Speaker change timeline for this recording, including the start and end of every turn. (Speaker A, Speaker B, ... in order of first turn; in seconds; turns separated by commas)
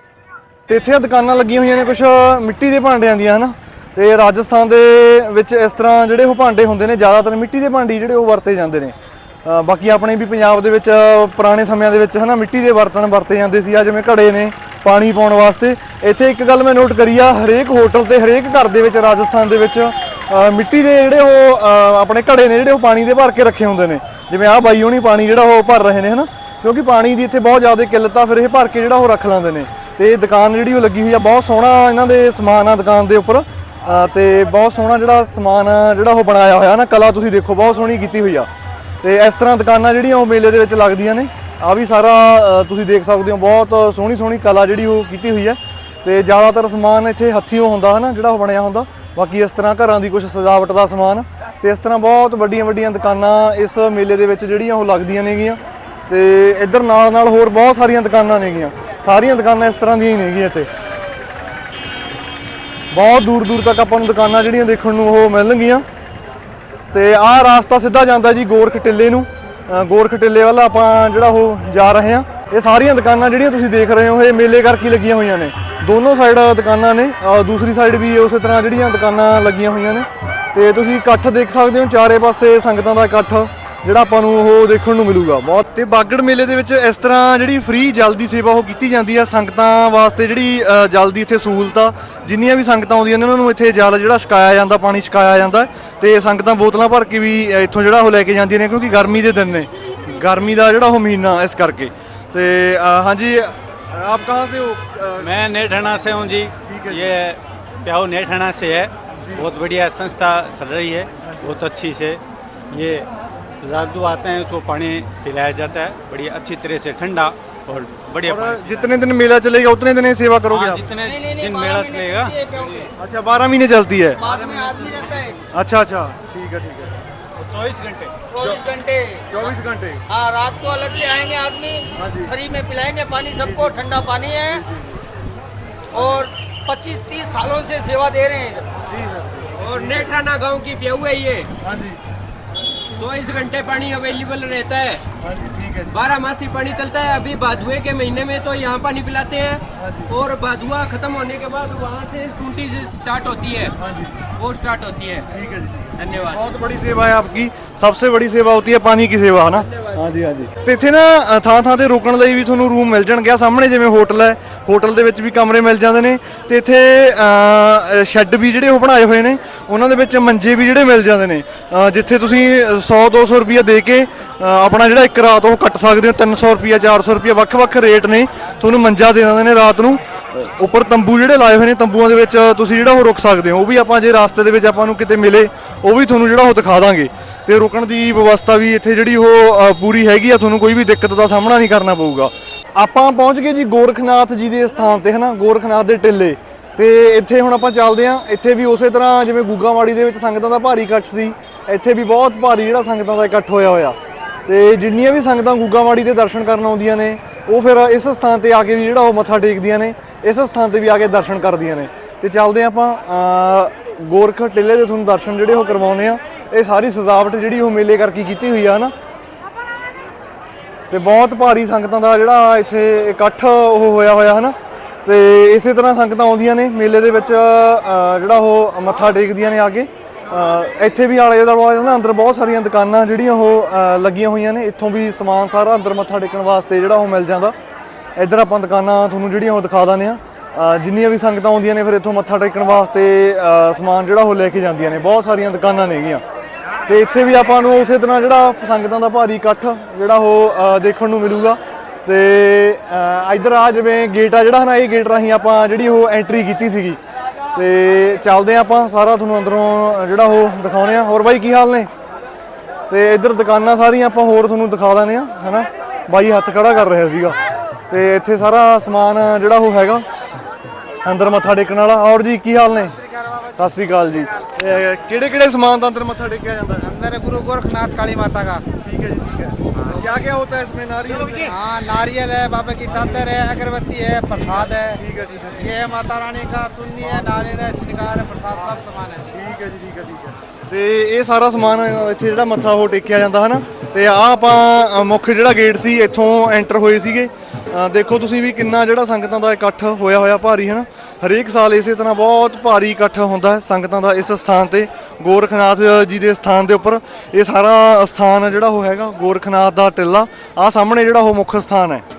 Speaker A: 0.7-8.9, Speaker A: 9.4-38.5, Speaker A: 39.0-60.7, Speaker A: 62.9-65.8, Speaker A: 66.9-105.3, Speaker B: 105.2-113.1, Speaker A: 106.7-107.2, Speaker A: 109.2-109.5, Speaker A: 111.2-111.5, Speaker B: 113.6-118.9, Speaker A: 118.2-120.8, Speaker B: 120.5-122.3, Speaker C: 121.0-122.9, Speaker A: 123.0-124.2, Speaker C: 124.2-125.4, Speaker B: 124.2-124.7, Speaker A: 125.5-126.9, Speaker B: 127.3-128.1, Speaker C: 128.3-129.5, Speaker A: 129.3-130.0, Speaker C: 130.1-134.6, Speaker A: 131.9-132.3, Speaker A: 133.4-133.7, Speaker C: 135.9-138.7, Speaker A: 138.9-140.1, Speaker D: 139.6-141.5, Speaker A: 141.6-142.0, Speaker D: 142.9-145.0, Speaker A: 145.2-146.0, Speaker D: 145.9-153.7, Speaker A: 149.8-150.1, Speaker A: 153.8-154.2, Speaker D: 154.4-155.2, Speaker A: 155.3-218.9, Speaker D: 156.0-156.4, Speaker A: 220.9-237.5, Speaker A: 238.2-246.2, Speaker A: 246.9-257.0, Speaker A: 257.5-261.9, Speaker A: 262.9-267.4, Speaker A: 267.9-270.1, Speaker A: 271.0-273.0, Speaker E: 272.9-273.6, Speaker A: 273.6-276.9, Speaker E: 274.2-274.4, Speaker E: 276.8-278.6, Speaker A: 278.8-281.6, Speaker E: 279.7-280.1, Speaker E: 281.3-285.0, Speaker A: 284.4-285.7, Speaker E: 285.6-289.4, Speaker A: 289.3-312.0